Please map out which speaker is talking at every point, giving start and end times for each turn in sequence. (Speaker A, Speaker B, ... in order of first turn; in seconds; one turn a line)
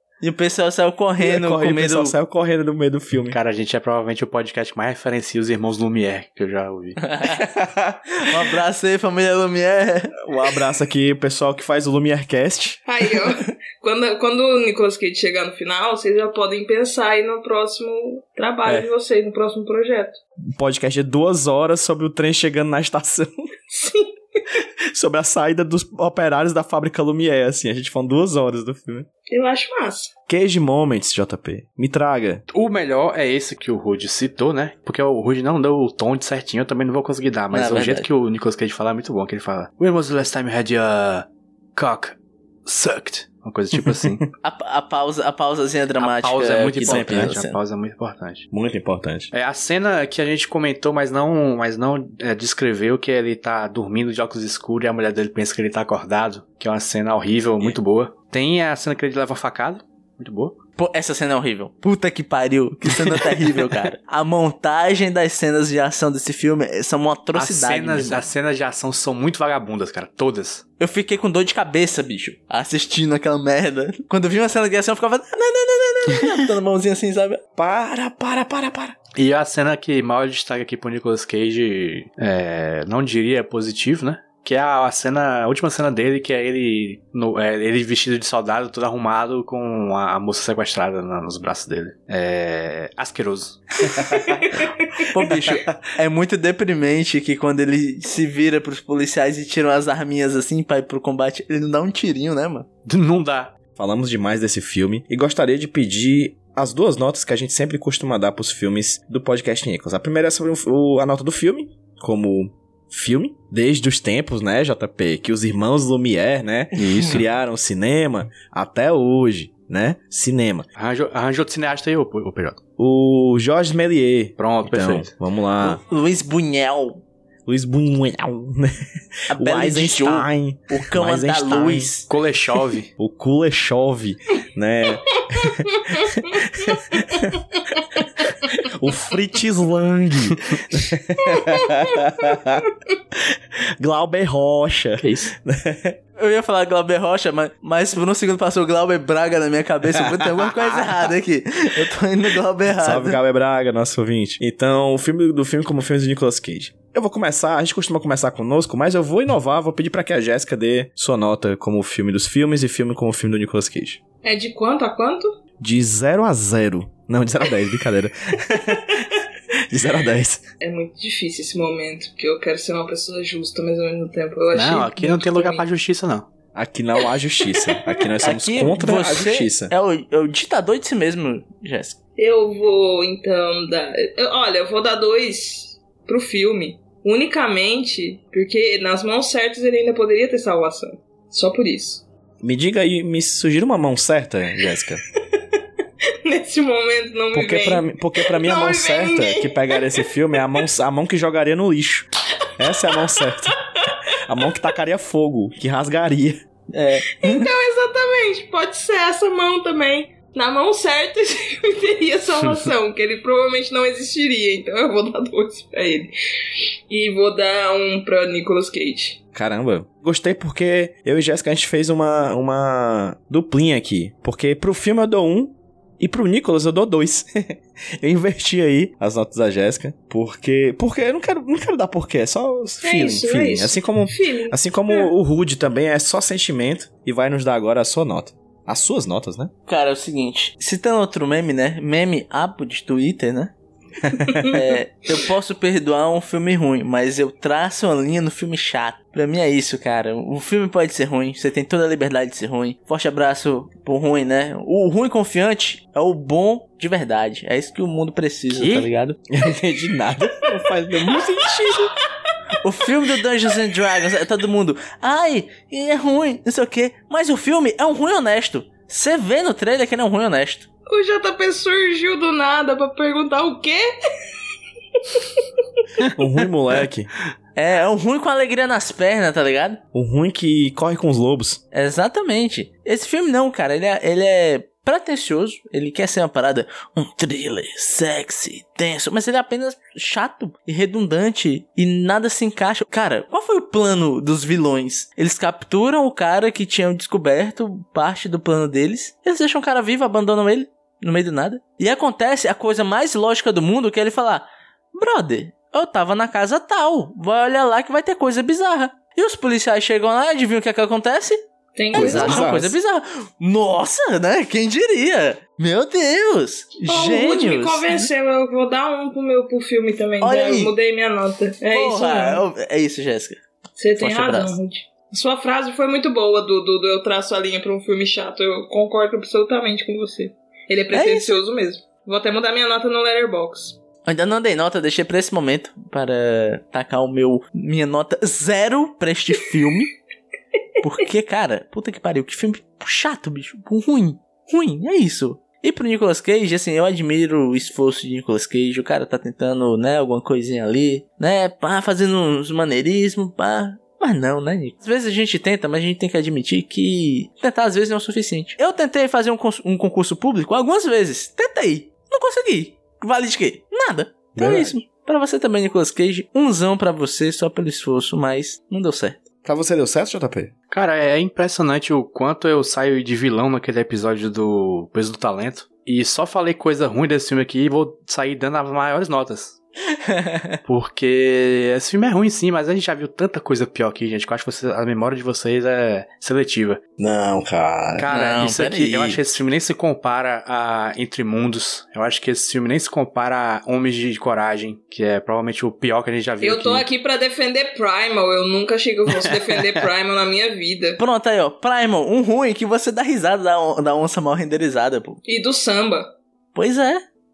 Speaker A: 0.2-2.1
Speaker B: 1.2-3.4
Speaker C: 3.3-7.0
Speaker A: 7.0-7.4
Speaker B: 7.3-8.3
Speaker A: 8.2-10.2
Speaker B: 10.2-12.8
Speaker D: 12.9-20.2
Speaker B: 18.6-18.9
Speaker B: 20.6-23.3
Speaker D: 23.7-24.4
Speaker B: 24.9-29.1
Speaker D: 29.3-30.1
Speaker B: 30.3-32.4
Speaker C: 32.5-44.2
Speaker A: 37.5-38.1
Speaker B: 43.8-44.2
Speaker A: 44.4-47.6
Speaker C: 46.0-48.5
Speaker B: 46.8-47.4
Speaker B: 48.5-49.3
Speaker C: 49.3-60.5
Speaker A: 60.8-68.2
Speaker C: 67.3-70.6
Speaker A: 70.8-77.4
Speaker B: 77.5-79.0
Speaker C: 79.2-93.6
Speaker B: 94.0-94.4
Speaker A: 95.1-102.7
Speaker B: 95.4-95.8
Speaker C: 102.8-103.5
Speaker B: 103.8-120.7
Speaker C: 116.8-117.2
Speaker C: 120.8-122.6
Speaker B: 122.8-125.8
Speaker C: 124.4-125.1
Speaker A: 125.6-127.0
Speaker B: 127.5-128.8
Speaker A: 129.3-132.1
Speaker B: 129.3-131.9
Speaker C: 132.1-132.9
Speaker B: 133.0-146.0
Speaker D: 135.3-136.2
Speaker D: 141.2-142.0
Speaker A: 145.0-145.3
Speaker A: 146.2-153.2
Speaker B: 150.0-151.1
Speaker B: 152.7-164.0
Speaker D: 164.2-165.3
Speaker B: 165.6-170.4
Speaker D: 170.6-175.6
Speaker C: 174.5-176.3
Speaker B: 176.5-179.7
Speaker D: 177.5-178.0
Speaker A: 178.2-182.0
Speaker D: 182.2-192.0
Speaker B: 192.4-195.0
Speaker D: 196.2-200.0
Speaker B: 197.3-203.6
Speaker D: 202.8-203.9
Speaker B: 204.1-206.4
Speaker A: 206.7-207.5
Speaker D: 207.2-216.1
Speaker D: 216.9-219.2
Speaker B: 219.3-239.5
Speaker D: 232.8-235.1
Speaker A: 239.7-243.5
Speaker B: 244.0-244.5
Speaker D: 244.2-244.6
Speaker A: 244.5-259.2
Speaker C: 258.5-258.9
Speaker B: 259.3-261.9
Speaker A: 262.6-270.7
Speaker D: 270.9-273.8
Speaker D: 275.0-275.5
Speaker B: 276.1-277.1
Speaker A: 277.5-279.8
Speaker B: 279.9-281.6
Speaker A: 281.7-311.4
Speaker D: 311.7-312.5
Speaker A: 311.9-318.1
Speaker B: 311.9-312.7
Speaker D: 316.9-322.4
Speaker A: 320.2-320.7
Speaker A: 321.7-323.4
Speaker D: 323.8-333.8
Speaker A: 324.0-324.6
Speaker A: 330.9-331.4
Speaker A: 334.1-339.9
Speaker A: 340.8-369.2
Speaker B: 364.3-364.8
Speaker B: 369.4-370.5
Speaker C: 370.7-379.6
Speaker A: 380.1-380.6
Speaker C: 380.6-386.8
Speaker B: 387.0-388.1
Speaker C: 388.0-396.9
Speaker A: 388.1-389.2
Speaker D: 396.4-401.0
Speaker C: 399.1-399.8
Speaker A: 401.0-405.2
Speaker D: 405.2-406.1
Speaker A: 406.5-407.0